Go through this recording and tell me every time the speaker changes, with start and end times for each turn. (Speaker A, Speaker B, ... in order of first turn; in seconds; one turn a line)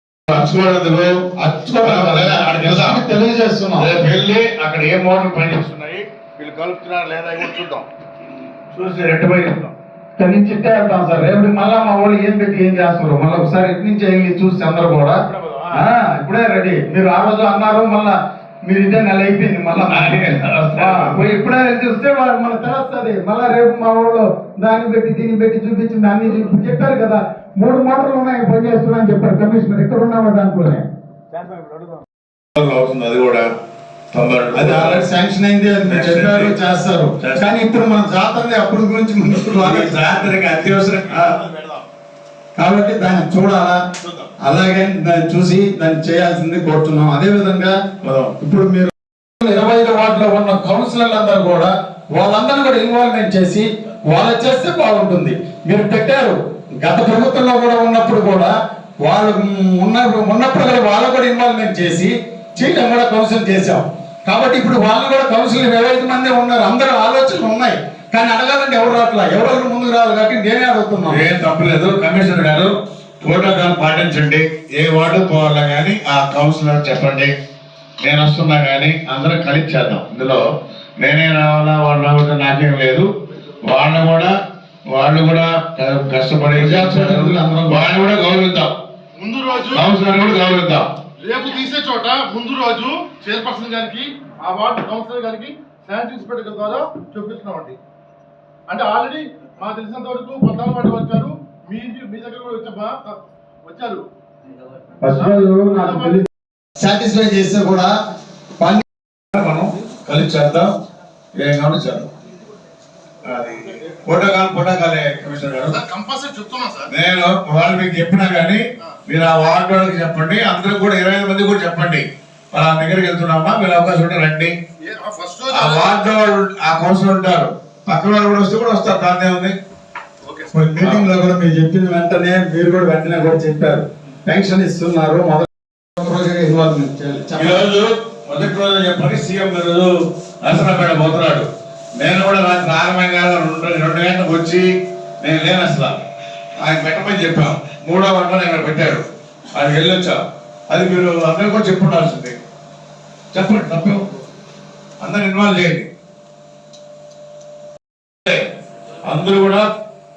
Speaker A: 0.3-1.3
Speaker B: 1.4-3.9
Speaker A: 1.8-3.0
Speaker A: 3.8-7.9
Speaker A: 8.7-9.7
Speaker B: 10.2-15.2
Speaker A: 15.3-15.8
Speaker B: 15.7-30.8
Speaker A: 19.8-21.2
Speaker A: 31.3-33.5
Speaker A: 34.1-35.1
Speaker B: 34.5-41.4
Speaker A: 35.9-36.6
Speaker A: 37.2-37.5
Speaker A: 39.6-41.9
Speaker B: 42.6-43.8
Speaker A: 44.0-44.3
Speaker B: 44.4-47.8
Speaker A: 48.0-48.3
Speaker B: 48.4-71.2
Speaker A: 71.1-77.3
Speaker A: 78.0-80.4
Speaker A: 81.0-83.1
Speaker A: 83.7-84.3
Speaker A: 84.9-88.7
Speaker B: 86.6-87.9
Speaker C: 89.2-89.9
Speaker A: 89.7-90.9
Speaker C: 91.2-97.8
Speaker C: 98.7-104.0
Speaker B: 105.0-106.3
Speaker C: 105.1-106.2
Speaker B: 106.8-107.9
Speaker A: 109.3-110.7
Speaker A: 111.4-112.1
Speaker A: 113.2-115.8
Speaker C: 115.7-116.9
Speaker A: 116.9-124.5
Speaker C: 124.8-126.1
Speaker A: 125.5-129.6
Speaker C: 130.2-130.6
Speaker B: 130.5-135.5
Speaker A: 130.7-131.1
Speaker B: 136.0-137.7
Speaker A: 137.4-139.9
Speaker A: 140.4-144.7
Speaker A: 145.2-146.0
Speaker A: 146.6-152.4
Speaker A: 153.3-154.0
Speaker A: 155.0-155.9
Speaker A: 159.1-159.7